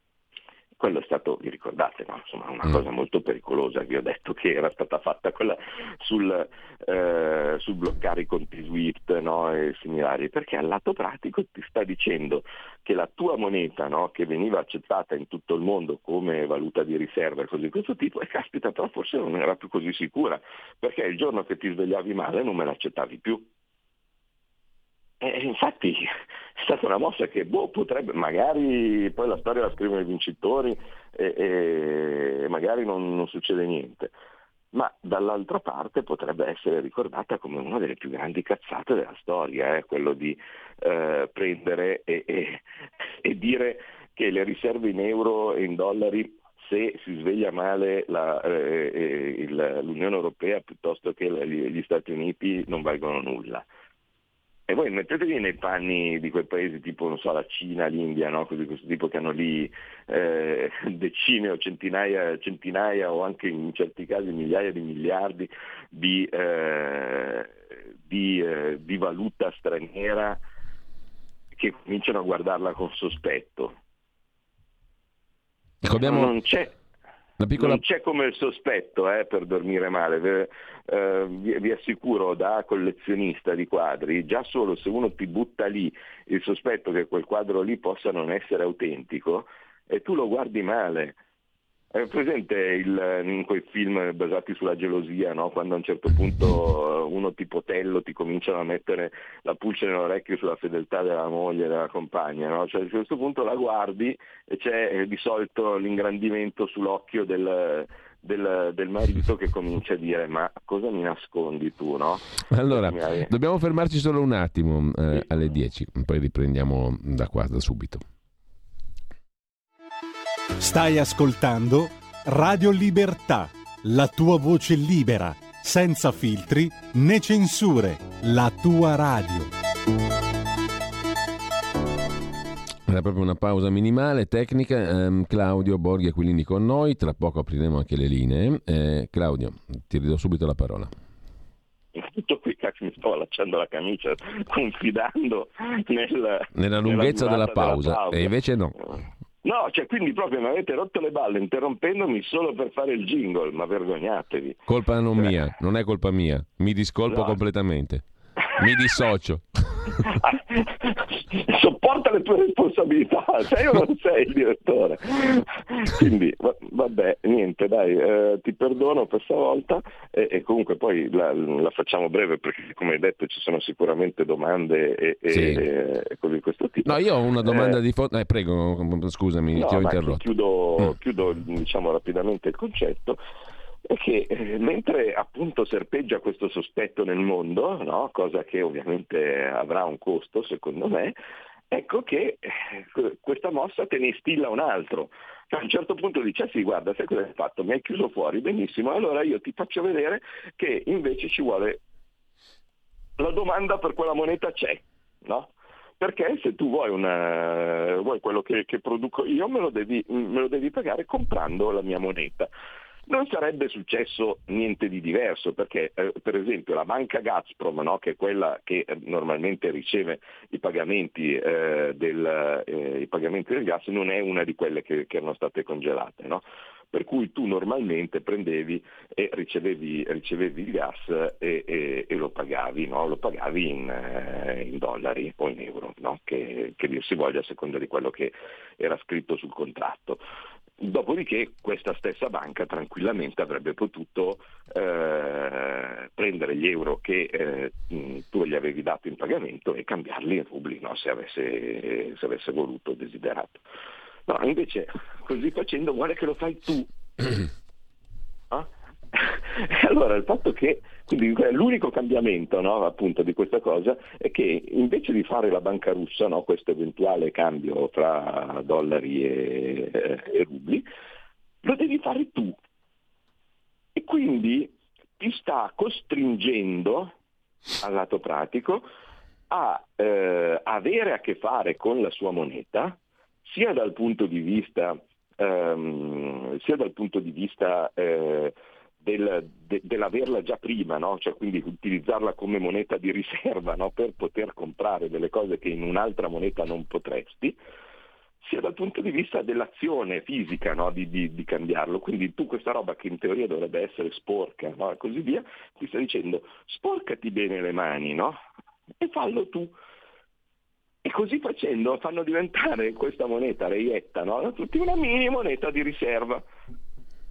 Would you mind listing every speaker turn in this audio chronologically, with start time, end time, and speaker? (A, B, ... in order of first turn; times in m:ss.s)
0:00.8-0:23.5 A
0:25.2-0:34.1 A
0:34.7-0:42.6 A
0:43.2-0:53.6 A
0:54.7-1:10.4 A
1:11.6-1:13.8 A
1:15.8-1:16.3 B
1:16.0-1:16.8 A
1:17.4-1:17.8 B
1:17.6-1:31.2 A
1:31.9-1:53.3 A
1:52.5-1:58.0 B
2:00.6-2:09.5 C
2:12.9-2:20.9 B
2:21.9-2:34.6 A
2:26.5-2:28.7 B
2:34.7-2:40.0 B
2:37.1-2:37.3 A
2:40.0-2:57.8 A
2:55.3-2:55.6 B
2:56.8-3:00.2 B
2:59.5-3:03.2 A
3:03.8-3:11.2 A
3:11.7-3:21.8 A
3:23.2-3:32.5 A
3:33.1-4:00.2 A
4:00.8-4:13.6 A
4:14.3-4:17.4 A
4:18.5-4:30.9 A
4:31.6-4:32.6 A
4:33.9-4:37.1 A
4:37.8-4:38.9 A
4:39.5-4:57.6 A
4:58.4-5:08.4 A
5:09.0-5:09.7 A
5:11.0-5:16.4 A